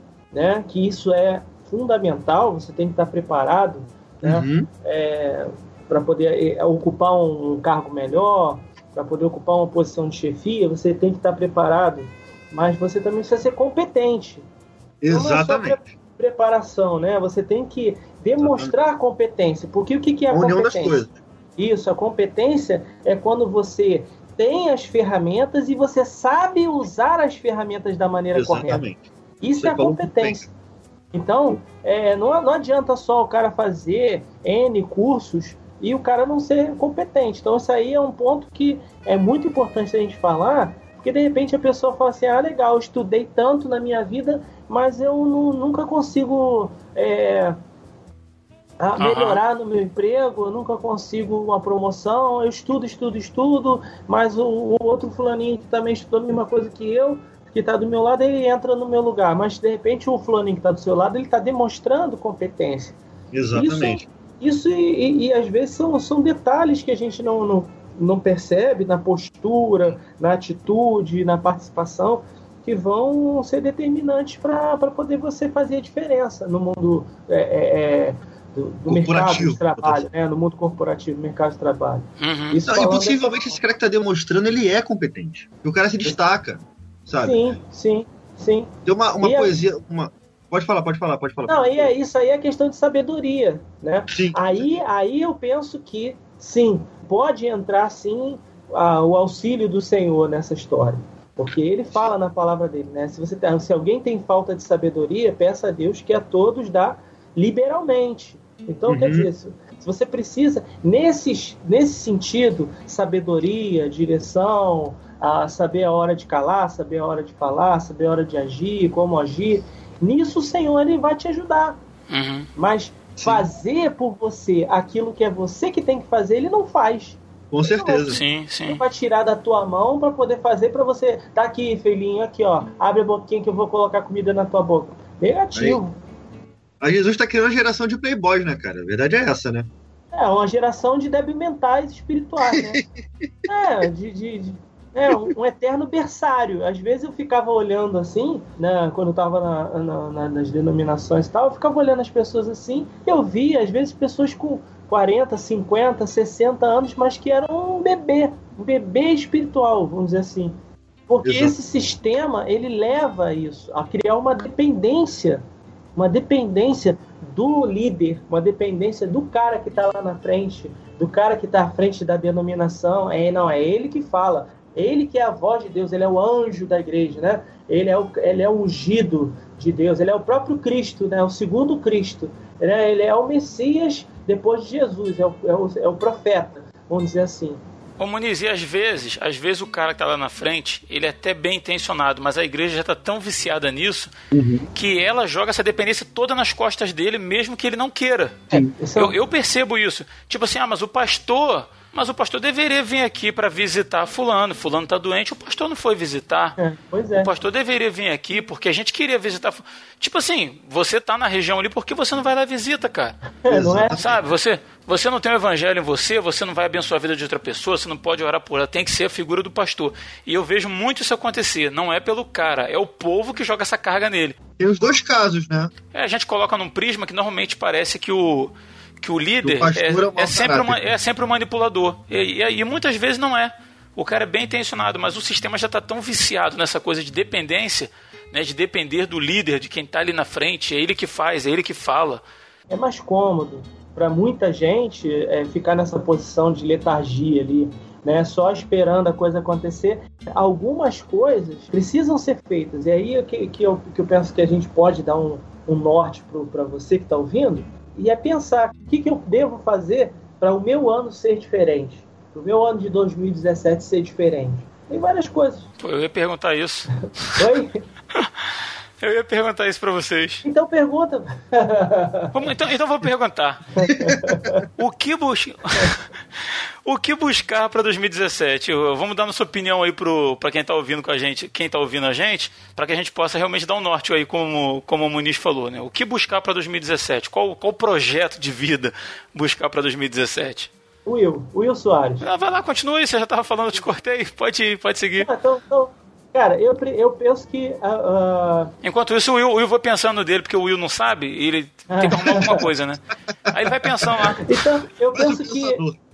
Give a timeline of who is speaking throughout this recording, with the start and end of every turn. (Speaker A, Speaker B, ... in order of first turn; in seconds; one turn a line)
Speaker A: 0.3-14.4
Speaker B: 4.2-4.7
Speaker B: 15.0-15.8
Speaker A: 15.1-21.0
Speaker B: 18.4-18.7
Speaker B: 20.3-21.1
Speaker A: 21.6-28.8
Speaker B: 28.4-29.1
Speaker A: 29.4-30.5
Speaker B: 29.6-30.5
Speaker A: 31.1-47.6
Speaker A: 48.8-63.0
Speaker C: 49.0-49.4
Speaker B: 63.3-64.0
Speaker A: 63.5-83.5
Speaker B: 78.9-80.1
Speaker C: 82.2-82.6
Speaker B: 82.7-87.4
Speaker A: 87.2-89.6
Speaker B: 88.9-91.9
Speaker A: 91.5-121.8
Speaker B: 94.1-94.8
Speaker B: 108.9-109.3
Speaker C: 122.1-122.5
Speaker A: 122.6-135.9
Speaker B: 123.2-123.5
Speaker B: 127.5-128.2
Speaker C: 128.1-128.8
Speaker B: 135.6-135.8
Speaker B: 136.8-139.7
Speaker A: 140.1-142.8
Speaker B: 142.4-143.5
Speaker A: 143.5-160.6
Speaker A: 161.1-165.4
Speaker B: 161.2-161.5
Speaker A: 166.0-187.6
Speaker C: 188.0-194.1
Speaker B: 194.3-194.7
Speaker C: 194.7-206.6
Speaker A: 198.7-199.2
Speaker A: 206.6-207.3
Speaker C: 207.2-213.2
Speaker A: 213.4-214.1
Speaker B: 213.5-214.0
Speaker C: 213.9-224.4
Speaker B: 224.6-225.7
Speaker C: 225.9-242.2
Speaker B: 229.4-230.8
Speaker A: 242.7-265.7
Speaker C: 265.8-267.4
Speaker A: 267.4-267.8
Speaker C: 268.2-268.4
Speaker C: 269.0-270.4
Speaker A: 270.4-272.4
Speaker C: 272.3-273.6
Speaker A: 273.8-274.6
Speaker B: 274.0-274.2
Speaker C: 274.8-290.7
Speaker A: 291.1-292.2
Speaker C: 292.2-295.3
Speaker A: 295.2-298.7
Speaker C: 298.8-304.4
Speaker A: 301.9-302.7
Speaker B: 303.5-304.1
Speaker A: 304.4-305.8
Speaker B: 305.1-306.0